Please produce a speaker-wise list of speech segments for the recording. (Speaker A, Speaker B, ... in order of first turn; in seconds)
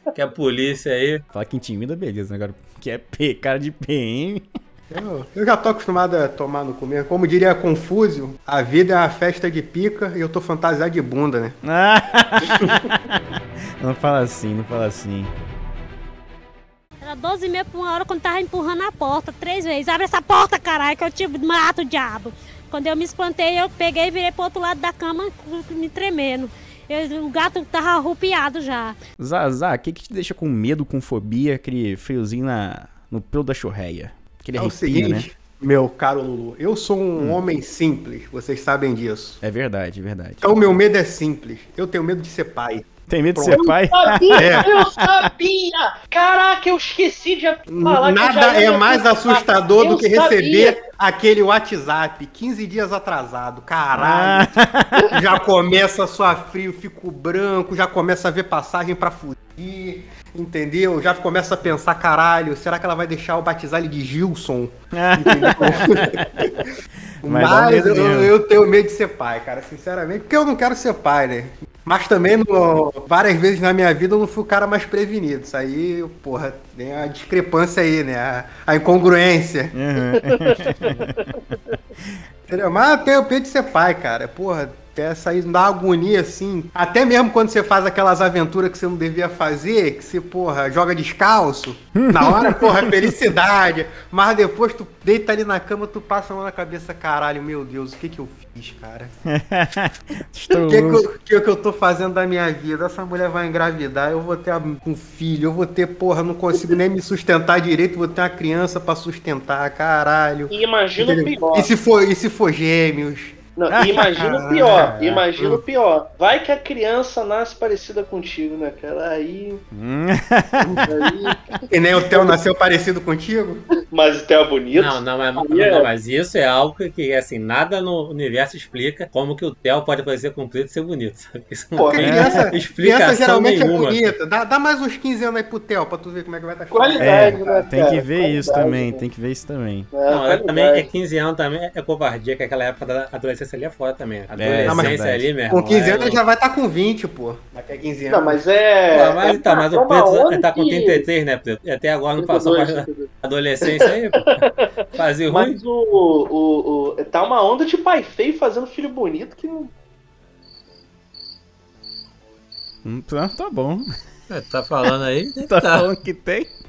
Speaker A: 0.1-1.2, 124.7-134.1, 140.1-146.2, 148.9-155.6, 164.3-165.9
Speaker B: 1.3-4.5, 11.6-13.2, 13.8-15.3, 29.2-35.3, 37.1-37.4, 39.4-40.5, 43.1-45.3, 53.9-55.1, 64.9-66.4, 67.2-68.3, 79.7-81.3, 92.0-93.1, 99.3-101.0, 113.7-114.1, 114.7-115.1, 119.7-120.9, 132.0-132.3, 137.0-139.9, 144.3-145.3, 162.8-163.9, 165.4-166.5
Speaker C: 4.9-11.6, 12.4-12.8, 34.5-39.4, 40.4-43.6, 44.3-44.7, 47.7-54.5, 55.1-79.7, 82.5-99.1, 100.5-115.6, 120.7-120.9, 121.7-123.6, 131.9-137.7, 144.7-144.9, 145.5-148.4
Speaker D: 17.0-28.9
Speaker E: 43.5-50.8, 80.2-80.9, 110.5-111.7, 113.5-119.6, 120.8-122.3, 123.8-125.9, 131.8-132.2, 136.7-139.0, 139.9-140.9, 148.1-151.1, 152.2-153.1, 153.6-159.7